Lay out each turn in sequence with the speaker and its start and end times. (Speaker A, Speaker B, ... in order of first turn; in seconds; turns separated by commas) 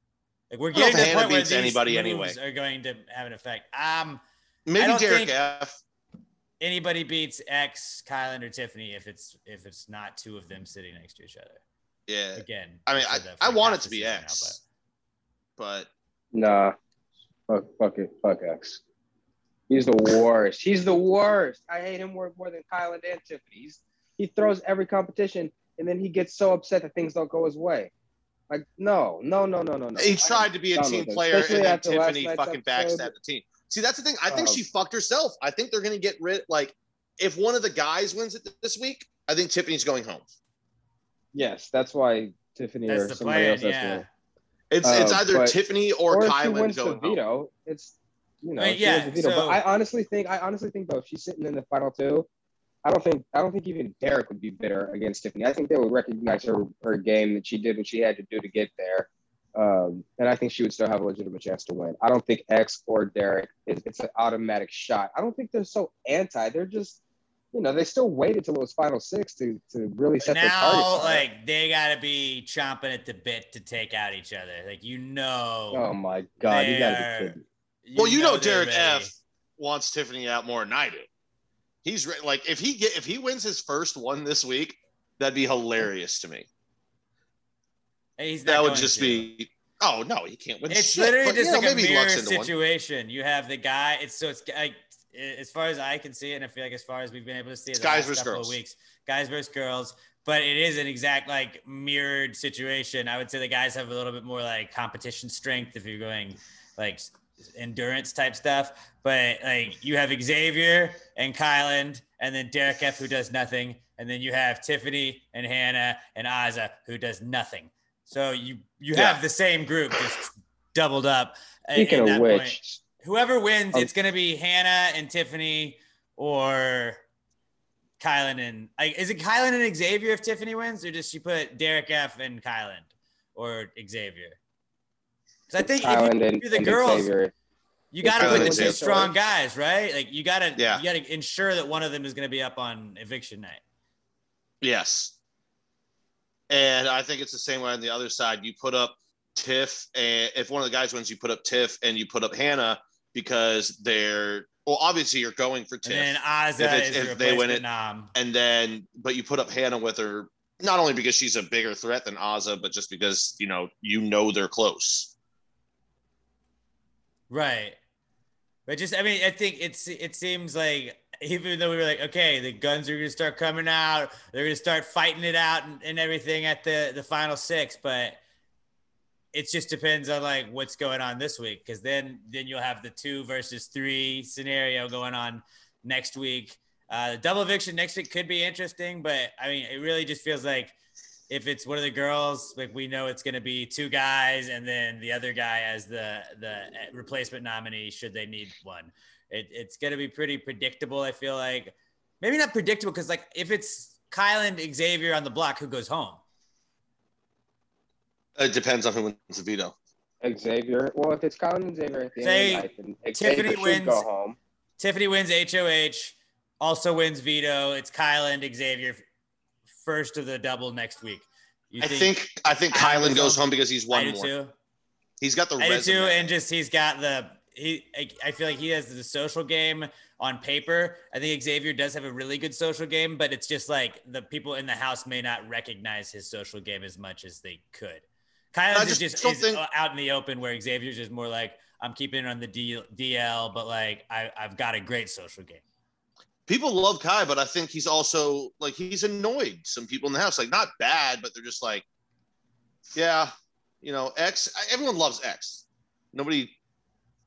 Speaker A: 0.5-4.2, Speaker B: 0.7-2.4, Speaker B: 4.7-5.8, Speaker A: 4.8-5.3, Speaker A: 6.6-11.6, Speaker B: 12.1-14.6, Speaker A: 12.3-14.6, Speaker B: 15.6-15.9, Speaker C: 16.3-16.8, Speaker C: 17.5-18.8, Speaker C: 19.7-27.9, Speaker C: 28.5-33.1, Speaker B: 30.0-40.3, Speaker C: 34.3-34.6, Speaker C: 41.3-44.0, Speaker A: 42.9-44.1, Speaker B: 44.7-47.2, Speaker C: 44.8-45.6, Speaker C: 46.1-52.3, Speaker A: 48.6-49.6, Speaker C: 52.8-67.0, Speaker C: 67.5-71.2, Speaker A: 70.2-75.9, Speaker C: 75.7-77.4, Speaker A: 76.5-79.2, Speaker B: 78.0-81.1, Speaker B: 81.8-86.5, Speaker A: 88.2-89.3, Speaker B: 88.5-92.5, Speaker A: 90.7-127.0, Speaker B: 97.8-98.6, Speaker B: 118.9-119.2, Speaker C: 121.8-122.8, Speaker A: 128.0-134.4, Speaker A: 135.5-137.1, Speaker C: 135.6-137.3, Speaker A: 137.9-143.6, Speaker C: 138.0-139.1, Speaker B: 138.2-139.0, Speaker B: 140.6-140.8, Speaker B: 144.6-145.2, Speaker B: 146.5-165.1, Speaker A: 155.8-158.1, Speaker A: 167.3-167.8, Speaker A: 168.7-178.2, Speaker A: 179.3-190.7, Speaker A: 191.3-206.2, Speaker B: 208.4-209.7, Speaker C: 210.2-214.4, Speaker A: 212.2-214.1, Speaker A: 214.8-219.0, Speaker A: 219.8-224.5, Speaker B: 221.8-224.3, Speaker B: 225.2-226.3, Speaker A: 225.6-245.6, Speaker B: 238.7-239.6, Speaker B: 246.5-251.8, Speaker B: 252.9-256.6